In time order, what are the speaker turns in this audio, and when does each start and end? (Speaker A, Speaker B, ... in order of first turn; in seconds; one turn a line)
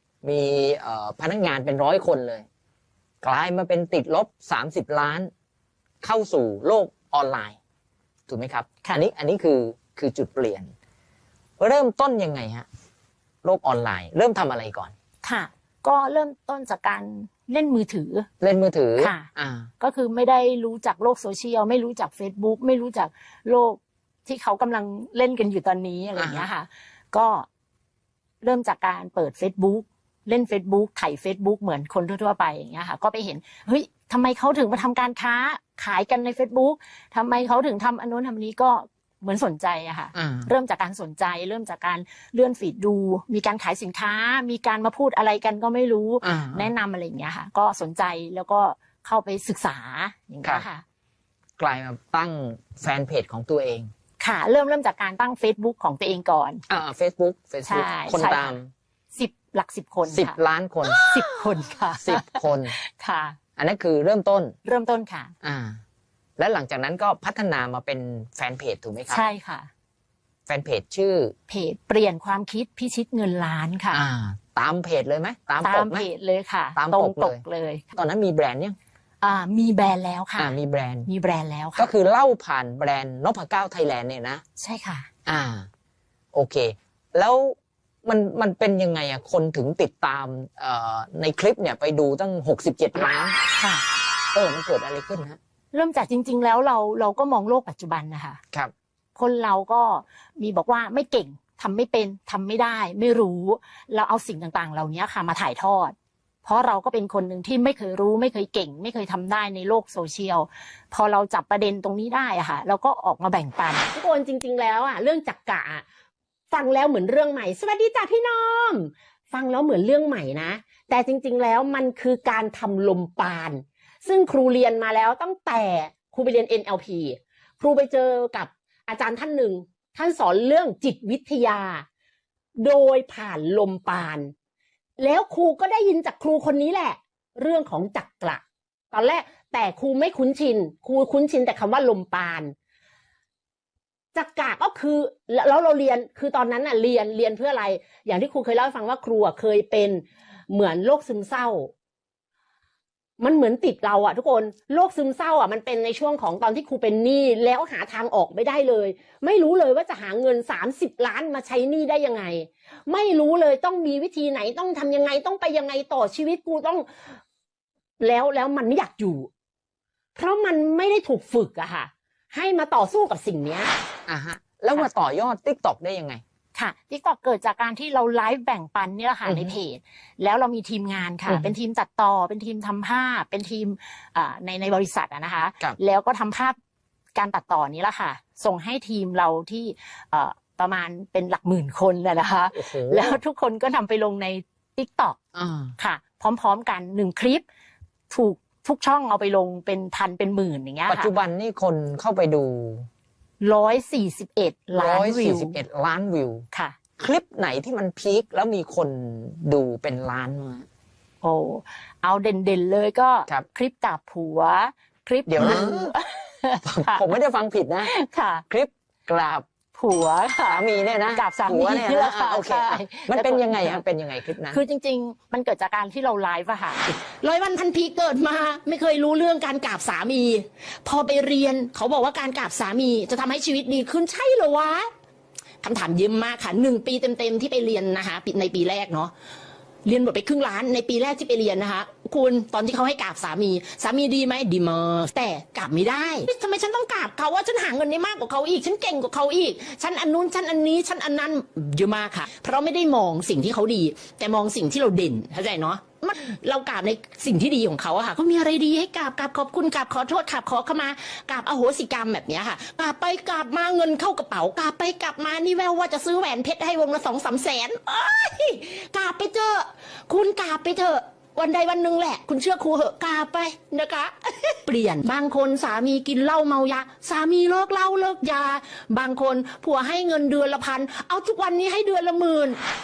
Speaker A: 0.2-2.5
Speaker A: 3.2-5.3
Speaker A: 6.0-7.6
Speaker A: 8.3-10.7
Speaker A: 11.6-12.7
Speaker A: 13.4-14.9
Speaker B: 15.2-18.3
Speaker A: 18.4-19.7
Speaker B: 19.0-19.3
Speaker B: 19.8-27.5
Speaker A: 26.2-26.5
Speaker B: 28.4-50.8
Speaker A: 40.1-40.5
Speaker A: 46.2-46.7
Speaker A: 51.6-53.9
Speaker B: 54.2-56.6
Speaker A: 56.7-58.7
Speaker B: 57.7-58.6
Speaker B: 59.2-60.4
Speaker A: 60.0-61.2
Speaker B: 61.0-63.4
Speaker A: 62.0-62.8
Speaker A: 63.6-64.5
Speaker B: 64.7-65.3
Speaker A: 65.4-65.8
Speaker A: 66.4-69.2
Speaker B: 69.1-69.7
Speaker A: 70.5-71.3
Speaker B: 71.5-74.0
Speaker A: 73.9-76.1
Speaker B: 75.6-77.9
Speaker A: 76.8-77.4
Speaker A: 78.0-78.8
Speaker B: 79.2-80.5
Speaker A: 80.4-81.1
Speaker B: 81.1-81.9
Speaker A: 81.8-84.4
Speaker B: 84.6-85.1
Speaker A: 85.3-85.7
Speaker A: 86.3-93.4
Speaker B: 93.6-93.8
Speaker A: 94.3-95.4
Speaker B: 95.7-98.4
Speaker B: 99.2-113.8
Speaker C: 113.8-115.8
Speaker C: 116.5-131.9
Speaker C: 132.6-134.3
Speaker C: 135.0-142.5
Speaker C: 144.1-151.7
Speaker C: 153.2-166.9
Speaker C: 168.0-169.3
Speaker C: 170.2-173.7
Speaker A: 174.1-176.2
Speaker B: 176.6-186.6
Speaker A: 179.2-179.6
Speaker B: 187.2-195.2
Speaker A: 192.5-193.2
Speaker A: 195.3-195.8
Speaker B: 195.8-197.4
Speaker B: 198.1-201.1
Speaker A: 200.9-202.9
Speaker B: 203.4-205.6
Speaker A: 204.8-206.4
Speaker A: 207.0-210.7
Speaker B: 211.2-217.0
Speaker A: 215.3-216.0
Speaker A: 216.6-217.9
Speaker B: 217.8-218.5
Speaker A: 218.5-219.4
Speaker B: 219.8-223.8
Speaker A: 220.4-224.6
Speaker B: 224.5-226.8
Speaker C: 226.8-234.9
Speaker B: 231.3-231.7
Speaker B: 232.2-232.8
Speaker C: 235.6-239.1
Speaker C: 239.8-282.6